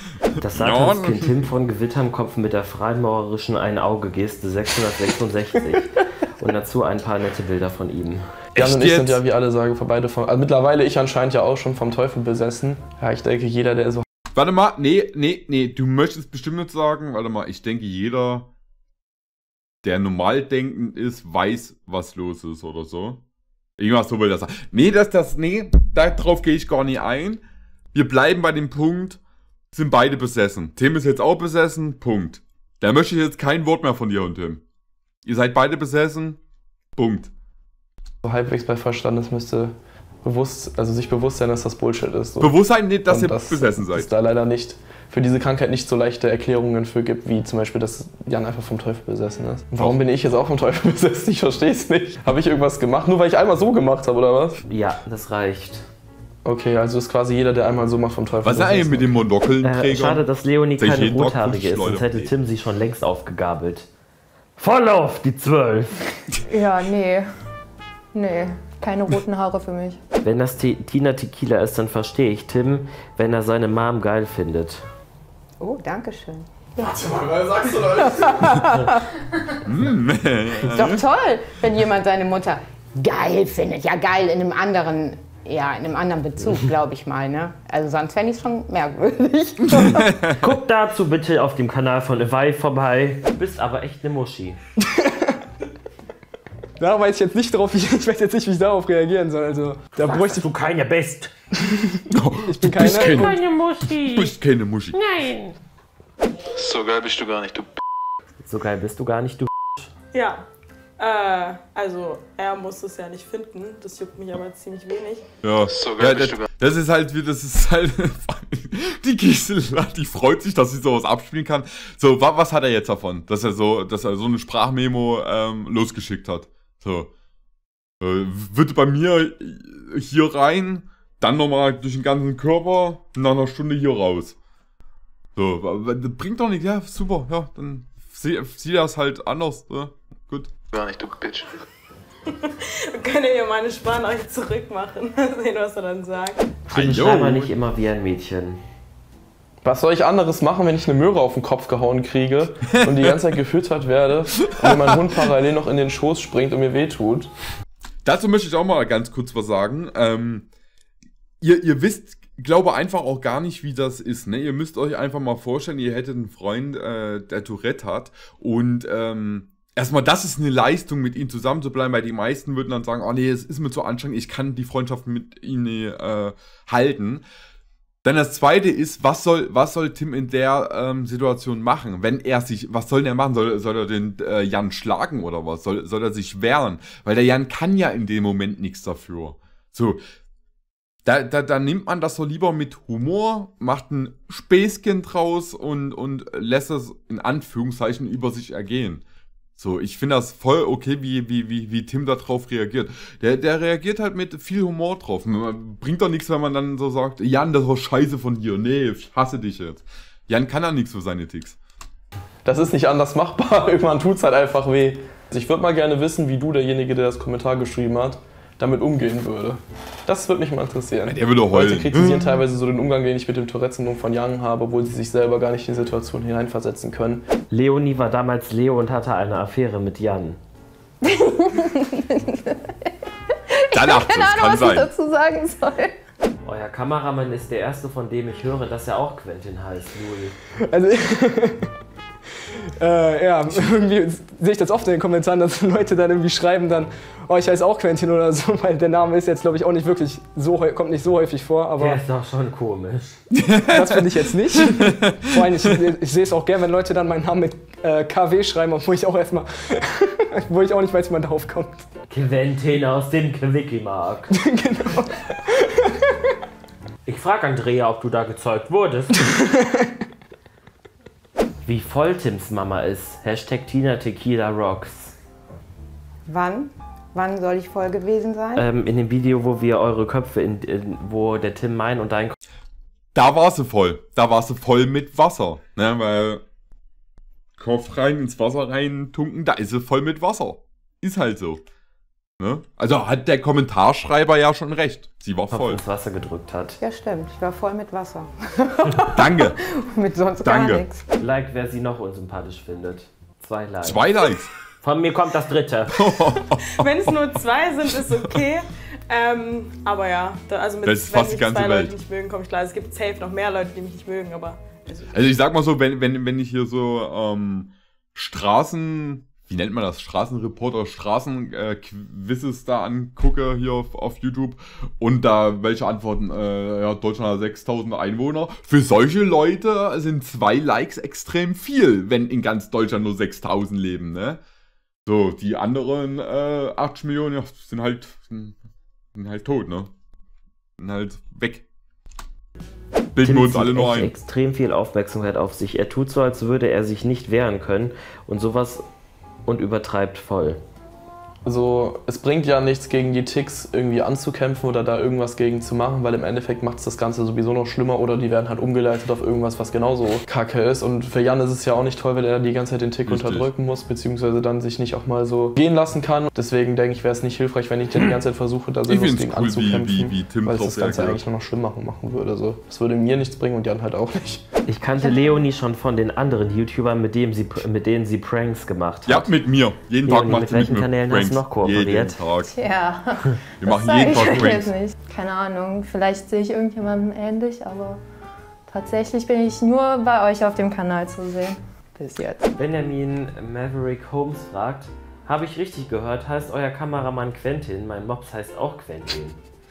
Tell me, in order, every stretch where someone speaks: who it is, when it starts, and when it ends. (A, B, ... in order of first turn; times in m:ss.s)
0:00.4-0:08.3 A
0:00.5-0:01.4 B
0:08.5-0:09.2 B
0:08.6-0:14.0 C
0:14.3-0:18.5 B
0:19.8-0:23.2 B
0:23.8-0:27.4 B
0:27.9-0:29.2 B
0:29.7-0:34.6 B
0:35.2-0:36.4 B
0:37.0-0:37.3 B
0:38.2-0:42.5 C
0:42.4-0:44.1 B
0:43.0-0:54.6 C
0:54.7-0:55.8 A
0:56.4-0:59.2 C
0:58.4-1:00.2 B
0:59.6-1:03.9 A
1:00.8-1:02.3 B
1:04.6-1:06.0 A
1:06.4-1:07.3 D
1:08.1-1:10.0 D
1:10.2-1:14.8 A
1:15.6-1:19.2 E
1:16.9-1:18.4 C
1:19.6-1:21.0 B
1:20.6-1:30.2 E
1:29.6-1:30.4 B
1:30.4-1:34.6 A
1:34.8-1:35.3 F
1:36.8-1:40.5 F
1:40.0-1:41.3 A
1:41.6-1:43.3 F
1:42.1-1:45.0 B
1:43.0-1:44.4 A
1:44.9-1:45.5 A
1:46.5-1:47.7 G
1:48.4-1:49.9 A
1:50.1-1:50.4 H
1:51.0-1:55.2 H
1:55.4-2:07.1 B
1:55.7-1:56.5 G
2:08.0-2:14.4 B
2:15.4-2:20.5 B
2:20.7-2:21.5 G
2:22.4-2:26.5 H
2:26.7-2:27.5 B
2:26.7-2:28.6 A
2:29.6-2:37.3 C
2:32.7-2:33.1 B
2:34.4-2:35.0 B
2:38.0-2:40.5 B
2:41.4-2:57.2 B
2:58.0-3:10.0 B
3:11.0-3:19.0 B
3:19.6-3:31.6 B
3:32.4-3:47.2 C
3:41.0-3:42.4 B
3:47.5-3:50.4 A
3:51.0-3:52.6 D
3:53.5-3:55.9 D
3:53.7-3:54.9 B
3:56.4-4:00.3 A
4:00.7-4:01.7 F
4:02.8-4:12.0 F
4:11.8-4:13.2 A
4:13.3-4:14.0 B
4:13.7-4:21.9 F
4:14.6-4:15.2 B
4:22.1-4:24.3 A
4:24.3-4:26.3 F
4:27.0-4:29.1 A
4:29.2-4:29.9 F
4:31.6-4:35.1 A
4:36.3-4:38.6 E
4:38.6-4:42.4 A
4:43.1-4:46.4 B
4:47.6-4:51.6 B
4:52.4-4:55.8 B
4:55.5-4:56.8 A
4:56.8-5:01.0 E
4:59.1-4:59.6 B
5:00.4-5:00.8 B
5:01.2-5:04.0 A
5:03.8-5:04.5 B
5:04.8-5:06.0 A
5:05.9-5:07.1 B
5:06.8-5:15.1 H
5:10.8-5:11.9 B
5:15.1-5:34.4 B
5:35.0-5:38.6 B
5:39.1-5:39.9 B
5:40.8-5:41.6 B
5:43.1-5:44.1 B
5:43.2-5:48.8 A
5:49.4-5:50.6 A
5:51.4-6:14.4 C
6:03.0-6:03.5 B
6:08.9-6:11.2 B
6:14.7-6:19.3 A
6:15.0-6:15.3 D
6:19.1-6:22.5 B
6:20.0-6:22.2 A
6:22.4-6:28.0 D
6:23.6-6:24.7 B
6:28.7-6:32.5 D
6:32.6-6:39.4 A